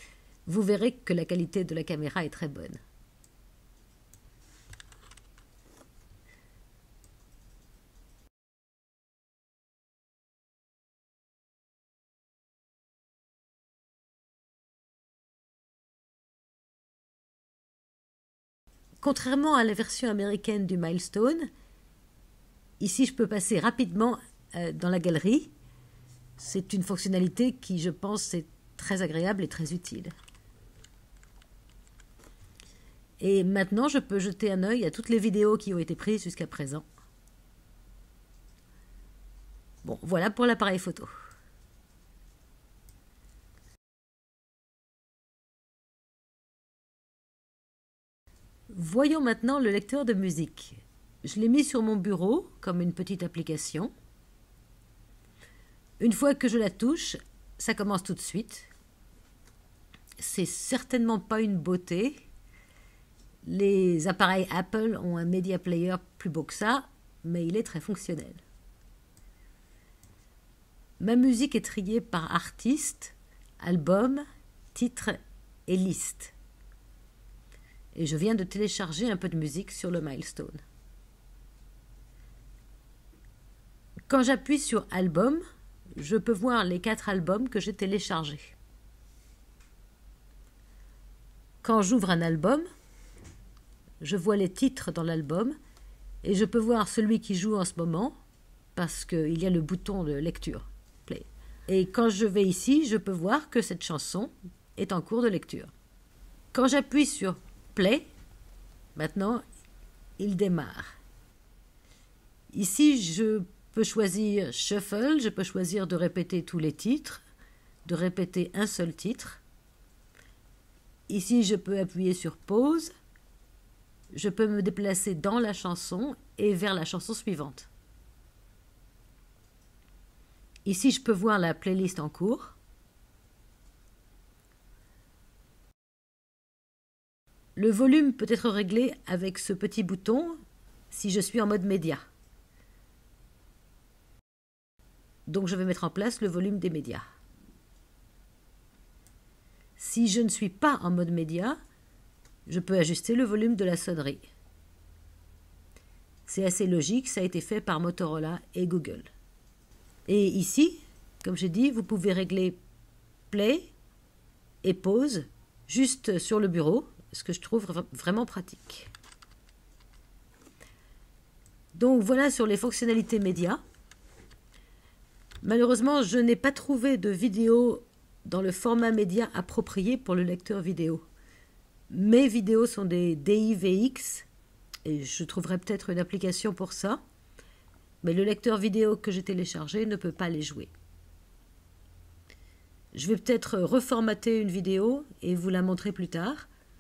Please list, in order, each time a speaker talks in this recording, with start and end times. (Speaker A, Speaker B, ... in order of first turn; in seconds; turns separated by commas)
Speaker A: 0.5-2.8, Speaker A: 19.0-21.5, Speaker A: 22.8-25.5, Speaker A: 26.4-30.1, Speaker A: 33.2-36.9, Speaker A: 39.8-41.1, Speaker A: 48.7-53.9, Speaker A: 56.0-58.7, Speaker A: 60.2-62.2, Speaker A: 63.4-68.4, Speaker A: 71.0-76.3, Speaker A: 78.0-80.6, Speaker A: 84.1-85.4, Speaker A: 86.0-88.6, Speaker A: 91.6-92.7, Speaker A: 94.0-95.6, Speaker A: 96.2-98.2, Speaker A: 98.8-105.7, Speaker A: 106.5-108.1, Speaker A: 109.0-109.4, Speaker A: 110.2-111.0, Speaker A: 112.5-117.2, Speaker A: 117.8-119.4, Speaker A: 121.1-122.9, Speaker A: 124.1-127.7, Speaker A: 130.7-132.6, Speaker A: 137.6-140.4, Speaker A: 140.9-142.1, Speaker A: 145.3-147.1, Speaker A: 149.8-151.6, Speaker A: 152.5-154.3, Speaker A: 156.3-159.1, Speaker A: 160.1-162.6, Speaker A: 163.3-163.7, Speaker A: 164.6-168.9, Speaker A: 171.7-173.6, Speaker A: 175.4-181.1, Speaker A: 181.9-184.3, Speaker A: 184.9-187.0, Speaker A: 188.0-190.7, Speaker A: 192.9-196.5